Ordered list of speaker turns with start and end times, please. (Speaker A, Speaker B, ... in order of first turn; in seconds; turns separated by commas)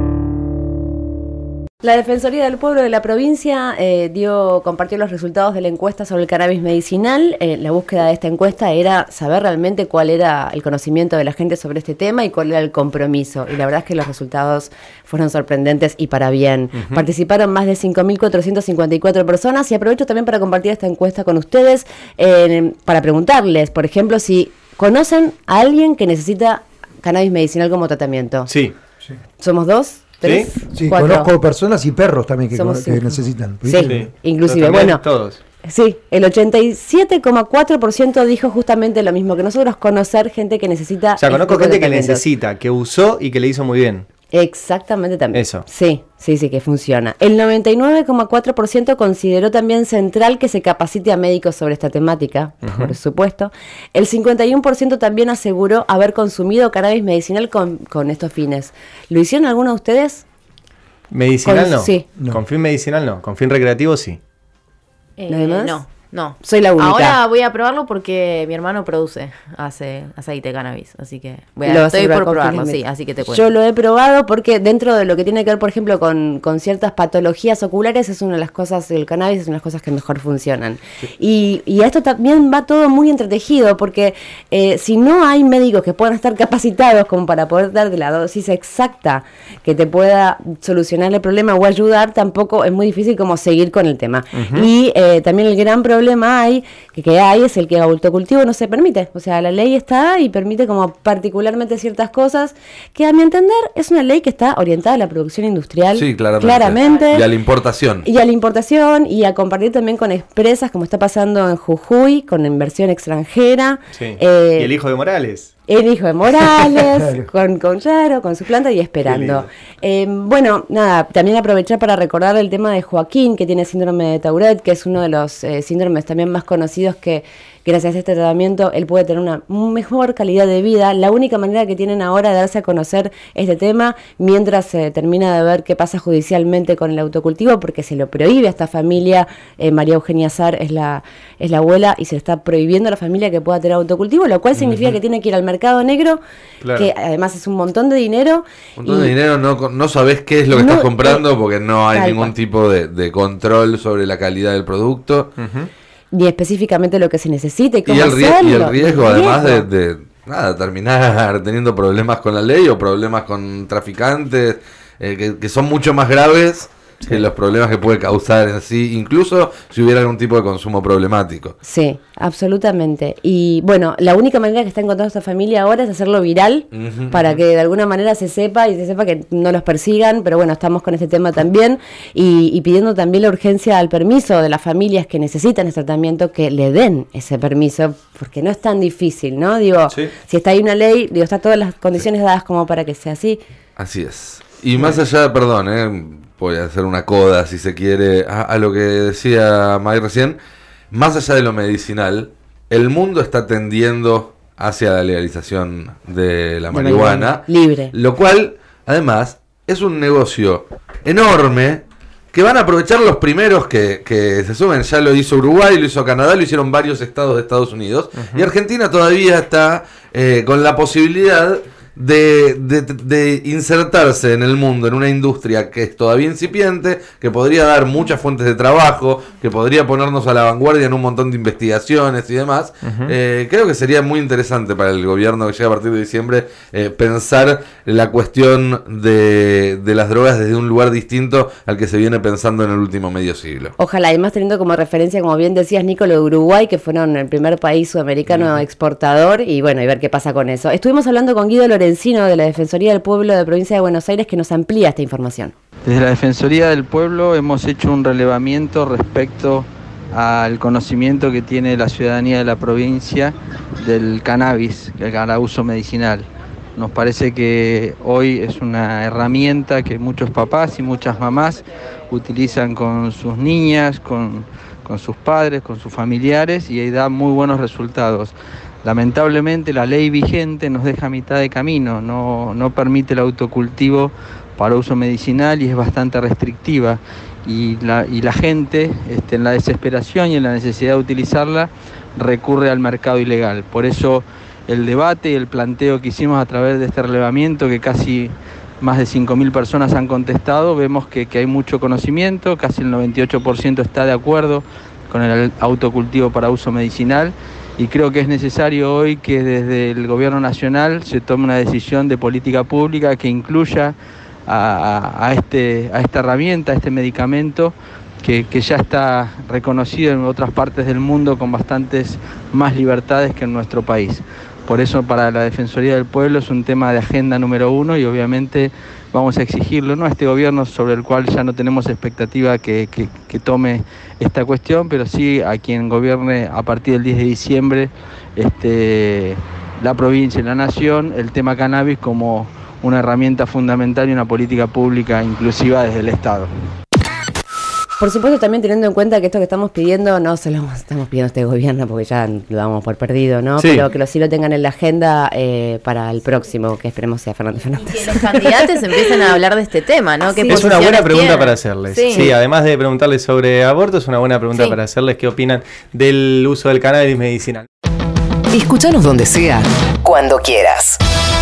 Speaker A: 1.8-28.5, Speaker B: 28.5-28.7, Speaker A: 29.4-31.3, Speaker B: 30.2-30.5, Speaker C: 30.7-34.1, Speaker A: 32.5-35.0, Speaker B: 33.8-35.4, Speaker A: 35.6-42.2, Speaker B: 41.2-44.0, Speaker A: 44.3-60.2, Speaker B: 45.3-45.6, Speaker B: 52.6-52.9, Speaker B: 61.1-64.2, Speaker A: 61.4-62.1, Speaker D: 65.2-73.5, Speaker A: 65.3-65.8, Speaker A: 66.4-67.2, Speaker A: 71.7-107.3, Speaker B: 94.3-94.7, Speaker E: 105.9-108.1, Speaker A: 108.0-114.7, Speaker B: 113.9-115.5, Speaker A: 115.7-146.2, Speaker B: 119.0-119.5, Speaker B: 146.6-146.9, Speaker A: 146.7-149.1, Speaker E: 148.8-155.3, Speaker A: 150.5-151.2, Speaker A: 151.9-152.3, Speaker B: 155.4-155.7, Speaker A: 156.1-159.7, Speaker E: 157.9-171.5, Speaker A: 171.6-193.4, Speaker E: 176.7-177.2, Speaker E: 193.8-200.4, Speaker E: 200.9-243.7, Speaker A: 206.7-207.9, Speaker B: 218.2-218.5, Speaker B: 232.8-233.1, Speaker A: 243.8-255.5, Speaker F: 255.8-313.9, Speaker F: 314.5-346.5, Speaker A: 348.0-359.3, Speaker B: 353.6-353.9, Speaker D: 357.9-362.3, Speaker B: 360.4-367.6, Speaker G: 368.5-371.0